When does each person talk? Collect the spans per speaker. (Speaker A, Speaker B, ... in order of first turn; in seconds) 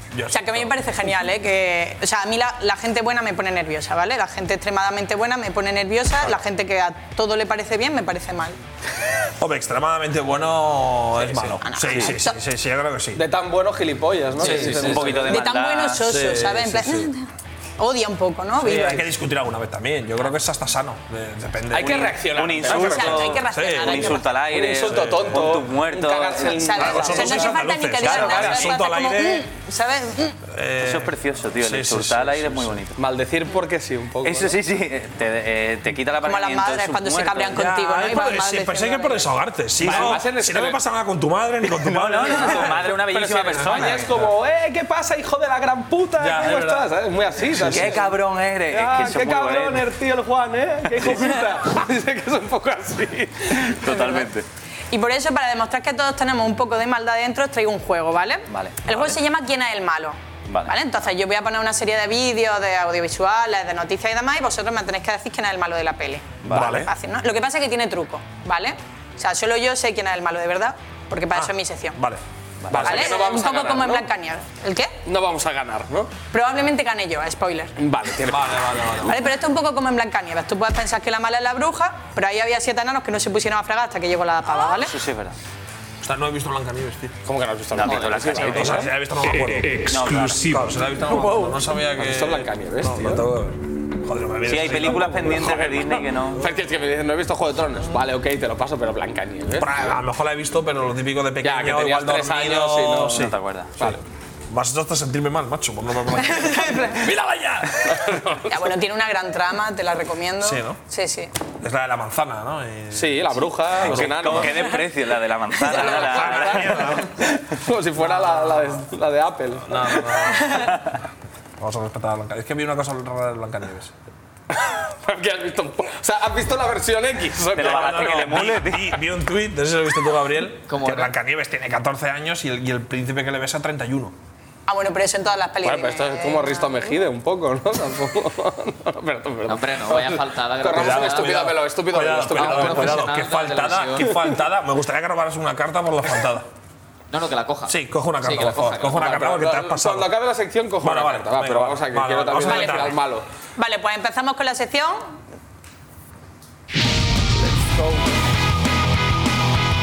Speaker A: 0.1-0.7, 9.4-13.2, 14.4-15.4, 16.0-17.1, 18.6-24.2, 24.8-25.5, 26.8-29.5, 30.5-32.8, 37.5-43.0, 43.5-44.3, 46.2-46.9, 47.5-48.0, 66.5-66.9, 71.3-73.3, 78.2-79.3, 86.0-87.2, 87.9-95.7, 99.6-107.3, 110.4-110.8, 111.6-114.7, 115.6-117.1, 118.0-118.8, 119.7-120.8, 121.6-123.9, 127.5-134.1, 140.6-146.4, 147.7-150.2, 150.8-153.0
Speaker B: 0.3-8.6, 11.6-12.4, 15.3-17.2, 17.8-19.1, 22.7-24.3, 26.5-30.4, 36.2-39.3, 53.9-54.2, 54.9-72.0, 72.8-74.9, 76.3-77.7, 79.1-84.9, 106.2-107.0, 108.5-111.3, 134.7-136.9, 152.5-152.9, 153.6-155.0
Speaker C: 13.1-15.3, 21.7-23.2, 24.5-27.5, 28.1-28.4, 33.0-34.5, 39.8-40.8, 42.2-48.1, 48.7-53.7, 72.8-74.1, 75.0-76.1, 77.8-79.1, 87.2-88.9, 91.0-93.2, 95.3-99.8, 101.4-103.2, 107.0-108.6, 112.9-114.8, 115.7-120.0, 125.0-128.5, 135.6-143.2, 143.7-144.1, 148.9-153.2
Speaker D: 14.4-16.1, 22.3-26.9, 28.0-28.5, 30.8-33.0, 34.2-37.7, 39.8-40.1, 41.8-44.0, 47.7-49.9, 53.5-54.4, 58.5-58.9, 60.5-60.7, 66.4-66.8, 72.6-73.0, 84.8-85.3, 87.7-88.9, 89.9-90.5, 94.5-96.4, 103.1-103.7, 113.8-117.0, 127.5-129.0
Speaker E: 130.7-131.1, 139.5-141.4, 142.3-144.1, 147.1-149.2